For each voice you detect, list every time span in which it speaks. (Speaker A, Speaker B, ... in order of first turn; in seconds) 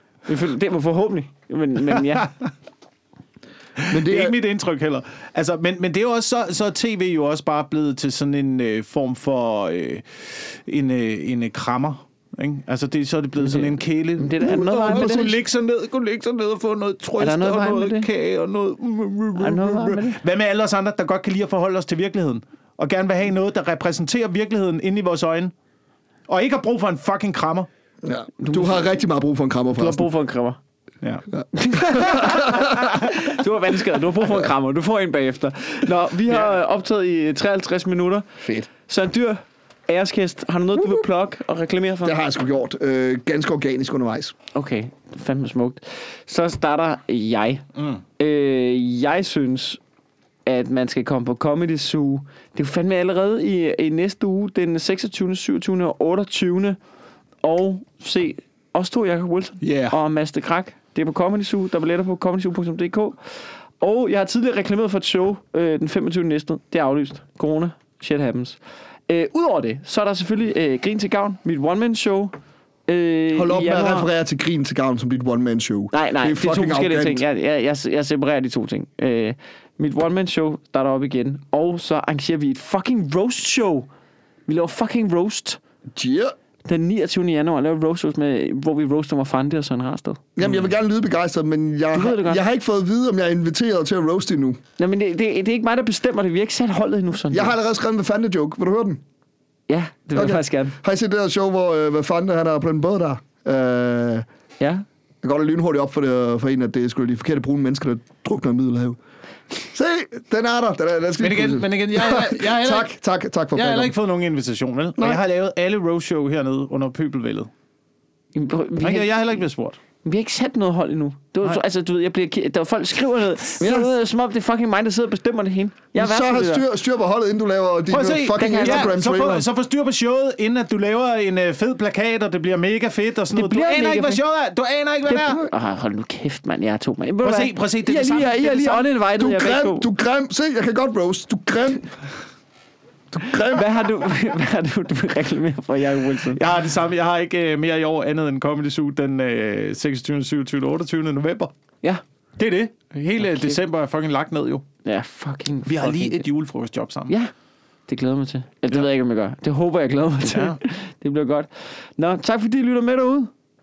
Speaker A: 0.3-2.3, 13.5-15.4, 17.2-18.1, 19.4-20.2, 28.4-28.9, 29.8-30.6, 31.5-42.2, 44.5-47.7, 48.2-49.8, 50.5-56.8, 57.4-63.2, 63.8-72.3, 72.9-74.1, 75.9-83.9, 84.5-85.6, 86.7-90.2, 91.9-92.4, 94.8-97.5, 99.7-100.8, 104.6-104.8, 118.3-119.2, 120.0-126.7, 128.4-128.9, 133.3-134.2, 135.1-139.9, 143.5-146.4, 153.2-153.6, 154.8-156.3, 157.9-163.3
Speaker B: 3.8-25.5, 26.3-27.7, 59.6-60.0, 111.2-112.9, 113.5-117.5, 118.8-119.8, 127.9-135.4, 137.2-138.9, 146.3-151.5, 152.4-154.6, 155.7-157.1, 160.2-160.6
Speaker C: 3.9-4.3, 28.0-30.1, 31.4-32.9, 38.4-38.7, 42.0-44.4, 73.3-77.2, 86.0-86.3, 90.4-94.6, 97.3-99.0, 100.2-104.3, 105.2-109.0, 109.6-113.9, 115.0-115.2, 123.6-123.9, 126.0-129.5, 139.2-141.9, 143.1-143.9